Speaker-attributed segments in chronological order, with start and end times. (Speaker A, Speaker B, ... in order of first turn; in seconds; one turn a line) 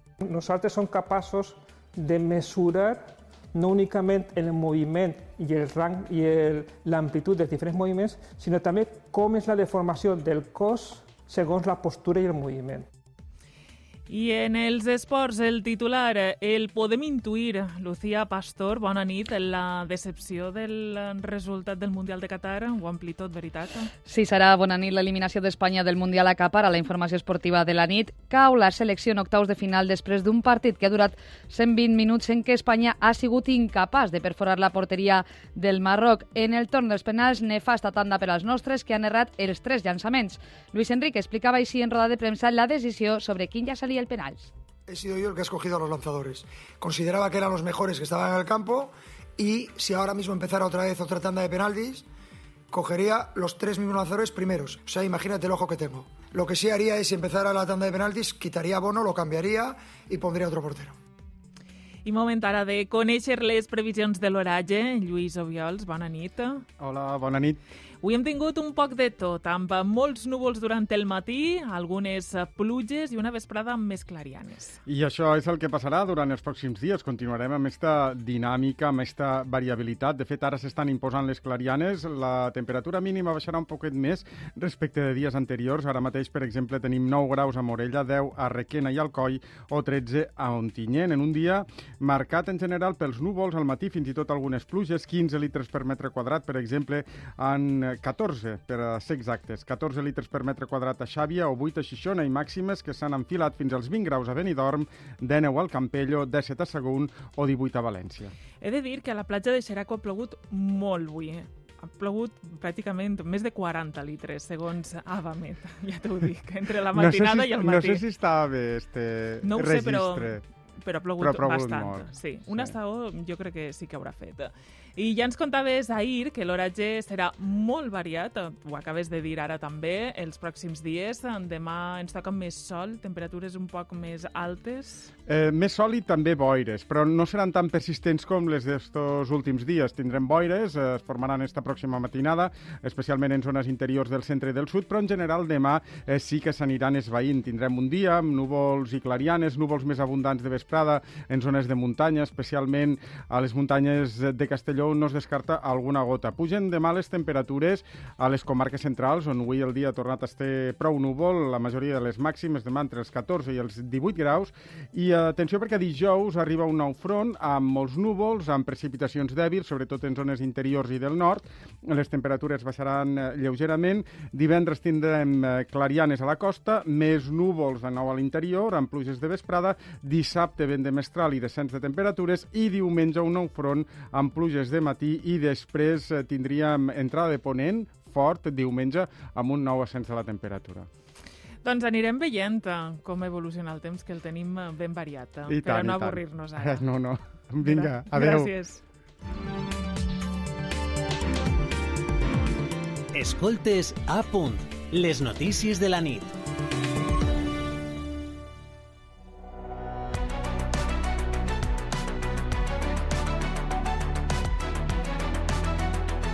Speaker A: 0.2-12.9
Speaker B: 14.1-23.9
Speaker C: 24.1-44.5
Speaker D: 44.9-52.0
Speaker D: 52.7-61.0
Speaker B: 62.0-66.6
Speaker E: 66.8-67.6
Speaker B: 68.0-74.8
Speaker E: 74.9-108.3
Speaker B: 108.6-118.0
Speaker E: 117.0-120.4
Speaker B: 119.4-135.1
Speaker E: 121.2-122.7
Speaker E: 135.3-190.9
Speaker B: 191.6-196.9
Speaker E: 195.5-198.5
Speaker B: 197.6-198.8
Speaker F: 203.1-206.3